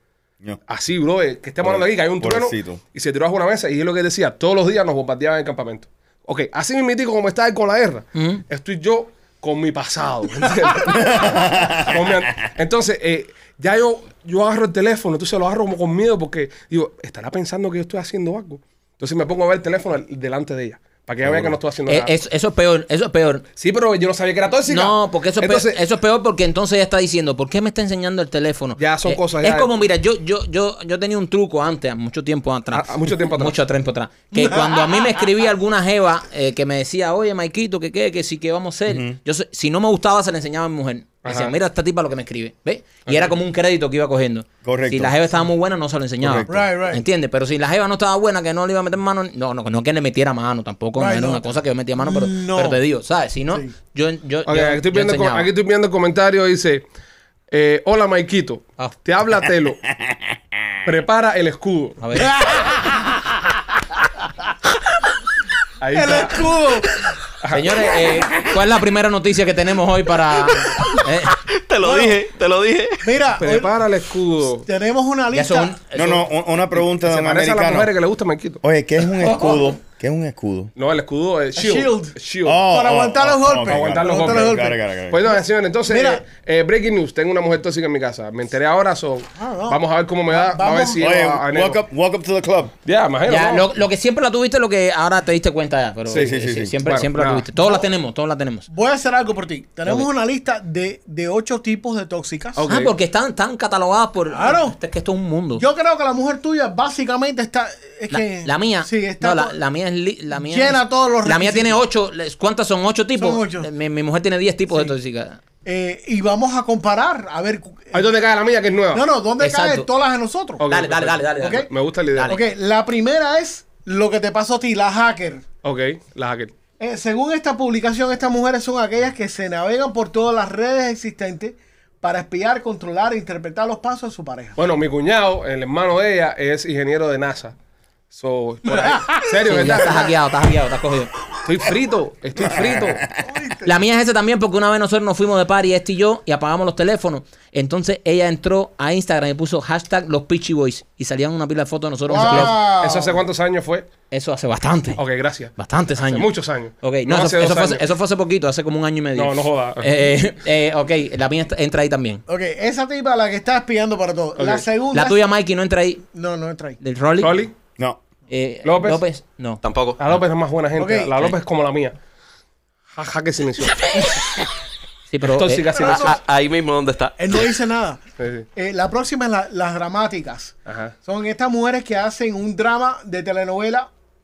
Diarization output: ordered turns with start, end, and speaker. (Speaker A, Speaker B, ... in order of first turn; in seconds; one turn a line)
Speaker A: 0.7-22.1
Speaker B: 1.6-2.8
Speaker C: 8.2-8.4
Speaker B: 10.8-12.0
Speaker B: 21.2-21.6
Speaker C: 21.9-23.4
Speaker A: 23.6-25.8
Speaker C: 24.7-55.5
Speaker A: 28.8-29.7
Speaker A: 32.7-33.5
Speaker D: 34.3-35.1
Speaker B: 38.9-39.2
Speaker A: 41.2-41.5
Speaker A: 43.1-43.3
Speaker B: 44.6-45.2
Speaker B: 46.2-46.7
Speaker D: 46.5-47.0
Speaker D: 51.0-51.5
Speaker D: 52.0-52.8
Speaker A: 54.5-56.8
Speaker A: 57.5-59.8
Speaker B: 60.0-60.7
Speaker A: 60.8-62.0
Speaker C: 62.0-62.4
Speaker A: 65.8-66.5
Speaker D: 65.9-67.0
Speaker A: 67.4-67.8
Speaker C: 67.5-71.4
Speaker E: 70.6-73.0
Speaker D: 71.8-72.2
Speaker D: 73.0-73.7
Speaker A: 73.4-74.7
Speaker D: 74.7-75.8
Speaker C: 75.3-76.3
Speaker B: 75.9-77.9
Speaker A: 76.8-78.6
Speaker B: 78.6-80.7
Speaker A: 80.8-82.6
Speaker D: 81.6-82.1
Speaker B: 82.4-85.3
Speaker D: 82.7-84.8
Speaker A: 83.4-91.8
Speaker D: 85.9-86.2
Speaker D: 89.4-91.0
Speaker B: 91.0-92.7
Speaker A: 92.8-93.7
Speaker C: 93.3-98.7
Speaker B: 96.1-96.8
Speaker A: 96.9-97.5
Speaker D: 97.6-97.9
Speaker D: 98.7-102.6
Speaker A: 102.5-102.9
Speaker C: 102.7-105.7
Speaker D: 104.3-104.8
Speaker D: 105.6-109.5
Speaker C: 108.1-115.4
Speaker D: 110.3-111.8
Speaker D: 113.2-113.7
Speaker D: 115.7-118.0
Speaker A: 117.9-119.1
Speaker D: 118.9-120.7
Speaker C: 119.4-119.9
Speaker A: 120.6-122.4
Speaker C: 120.7-122.4
Speaker D: 121.4-121.7
Speaker D: 122.3-125.4
Speaker A: 125.6-126.5
Speaker D: 126.8-134.6
Speaker A: 134.6-137.6
Speaker A: 138.1-140.2
Speaker D: 138.7-139.2
Speaker C: 139.5-141.1
Speaker A: 141.4-143.0
Speaker B: 142.4-143.3
Speaker D: 143.2-143.8
Speaker C: 143.6-152.6
Speaker D: 152.1-153.2
Speaker A: 152.2-153.9
Speaker C: 154.1-155.0
Speaker A: 155.0-157.8
Speaker C: 155.6-156.3
Speaker C: 156.8-162.2
Speaker A: 159.2-159.9
Speaker D: 162.3-165.2
Speaker A: 164.4-164.7
Speaker C: 164.9-166.0
Speaker D: 166.1-166.8
Speaker C: 166.8-167.4
Speaker A: 167.2-167.5
Speaker C: 168.3-169.6
Speaker A: 168.6-169.0
Speaker E: 169.6-170.0
Speaker A: 170.0-172.0
Speaker D: 170.8-171.1
Speaker A: 173.0-173.9
Speaker E: 173.9-174.2
Speaker C: 175.1-176.0
Speaker A: 175.2-176.2
Speaker D: 175.7-176.2
Speaker E: 175.8-177.5
Speaker D: 177.2-178.0
Speaker A: 178.2-178.5
Speaker D: 178.6-183.9
Speaker A: 180.7-180.9